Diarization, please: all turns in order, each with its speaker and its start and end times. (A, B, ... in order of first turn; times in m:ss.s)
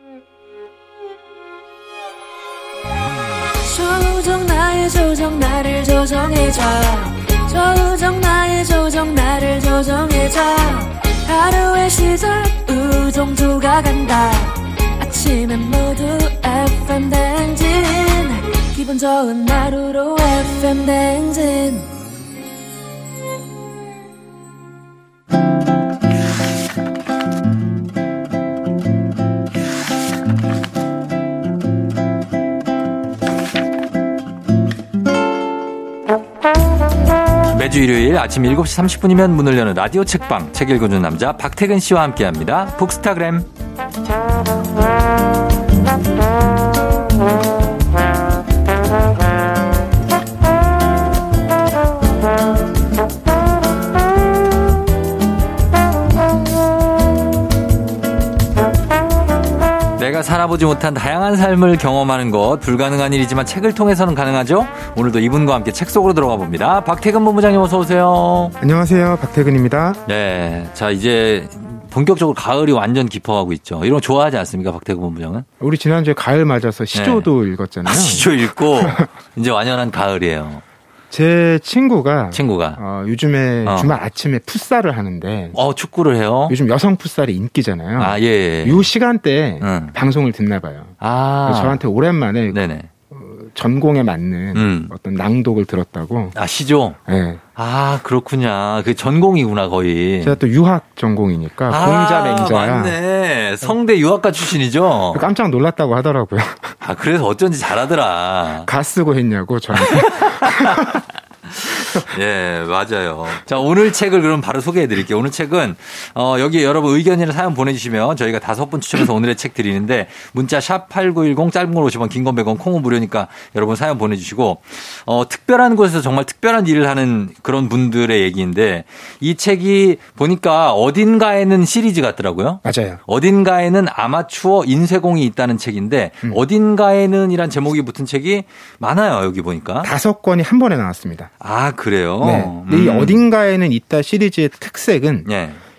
0:03.6-0:21.9 A
0:37.5-0:43.5 B
1:00.0-1:08.6 B
1:08.6-1:10.0 C
1:10.1-1:15.5 B
1:15.6-1:19.1 C
1:16.9-1:17.3 B
1:17.8-1:20.6 B
1:21.1-1:25.6 C
1:22.3-1:22.8 B
1:23.6-1:24.0 B
1:25.5-1:26.6 B
1:26.5-1:32.6 C
1:28.0-1:28.9 B
1:29.6-1:30.0 B
1:31.0-1:31.8 B
1:32.5-1:32.9 B
1:33.1-1:36.4 C
1:34.5-1:34.9 B
1:36.3-1:37.0 B
1:37.1-1:37.4 C
1:37.6-1:40.4 B
1:40.2-1:43.0 C
1:41.7-1:45.3 B
1:45.1-1:46.8 C
1:46.8-1:48.7 B
1:48.6-1:51.0 C
1:49.8-2:19.9 B
2:12.6-2:13.0 C
2:19.8-2:21.3 C
2:21.4-2:23.2 B
2:22.2-2:25.3 C
2:25.2-2:25.6 B